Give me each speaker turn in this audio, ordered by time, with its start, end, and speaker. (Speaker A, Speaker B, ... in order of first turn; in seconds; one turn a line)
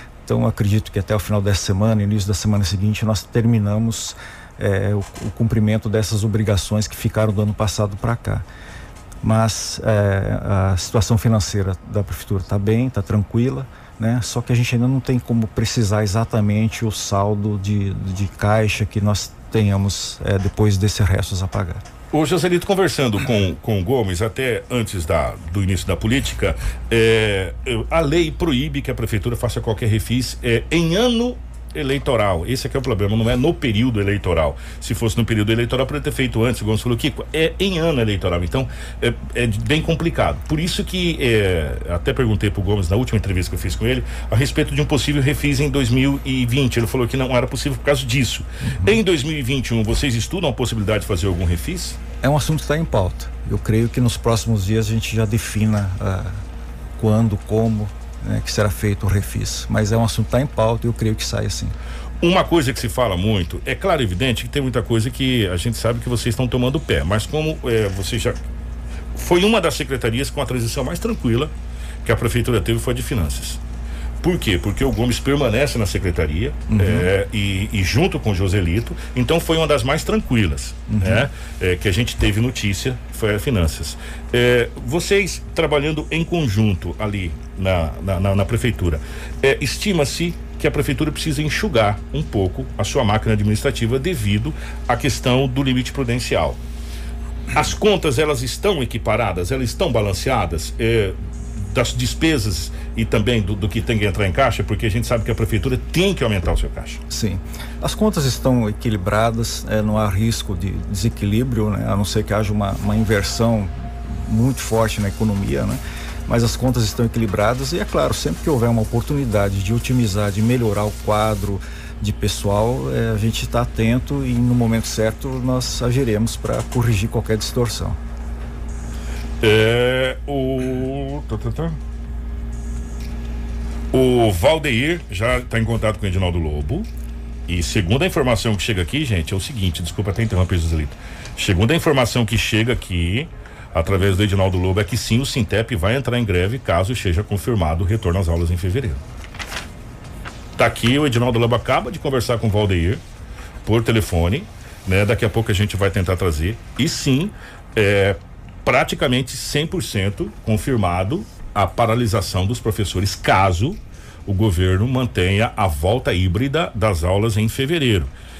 Speaker A: 0.2-8.4
Speaker A: 9.2-21.8
Speaker B: 22.1-52.0
Speaker A: 48.7-49.0
Speaker A: 52.2-56.4
Speaker A: 57.0-61.7
Speaker B: 62.2-68.4
Speaker B: 69.1-71.5
Speaker B: 72.0-73.6
Speaker B: 74.2-96.6
Speaker A: 76.7-77.1
Speaker A: 80.9-81.3
Speaker B: 97.5-107.0
Speaker A: 107.1-128.0
Speaker B: 129.4-131.8
Speaker B: 133.9-136.9
Speaker B: 137.5-149.0
Speaker B: 150.6-153.0
Speaker B: 153.6-168.1